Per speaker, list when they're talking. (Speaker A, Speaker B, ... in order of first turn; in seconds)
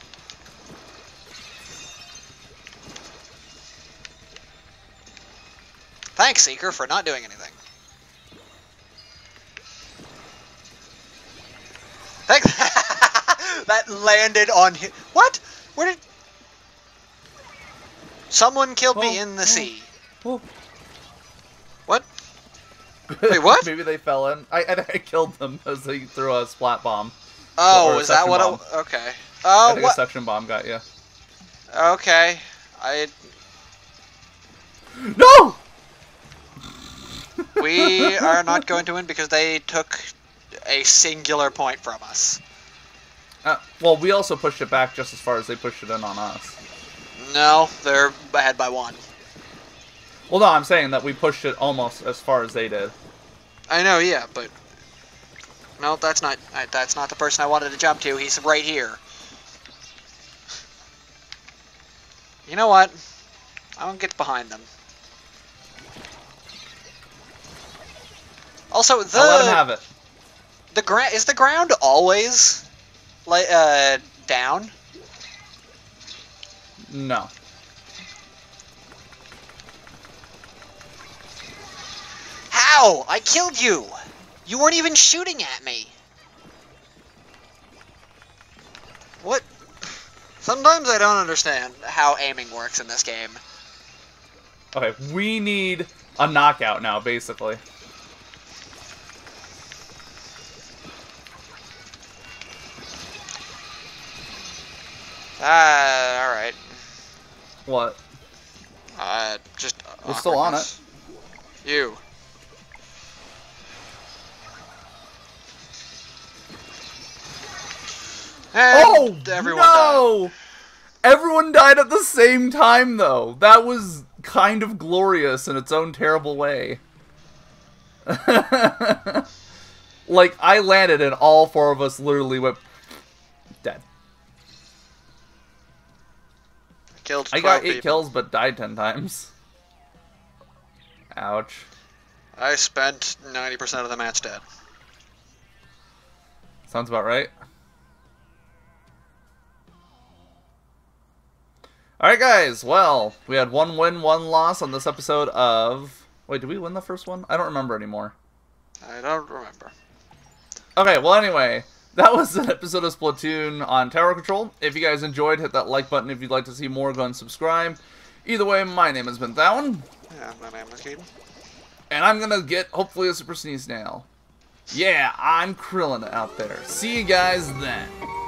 Speaker A: 6.2-7.6, 12.3-16.0, 18.3-19.9, 23.3-23.7, 27.6-30.0, 31.7-33.2, 37.6-40.1, 40.7-42.4, 47.2-49.0, 53.7-54.5, 55.8-59.0, 62.5-63.0, 63.8-64.7, 68.7-69.6, 70.7-72.7, 73.3-74.7, 82.5-83.9, 84.5-85.9, 90.4-93.4, 105.4-106.8, 109.0-110.8, 111.6-112.0, 118.5-120.1, 137.0-138.1, 142.4-144.4, 158.8-159.7, 170.1-171.1
Speaker B: 18.9-19.7, 23.1-27.1, 27.7-28.6, 29.6-30.8, 35.0-35.6, 37.4-38.6, 43.4-46.6, 50.3-52.9, 69.1-69.8, 76.9-77.3, 94.7-97.6, 107.7-108.0, 110.0-110.7, 118.7-120.3, 121.0-126.8, 128.1-129.3, 130.1-132.6, 137.3-139.3, 141.2-141.7, 146.7-147.3, 152.0-158.1, 160.8-169.9, 171.9-174.1, 174.7-177.9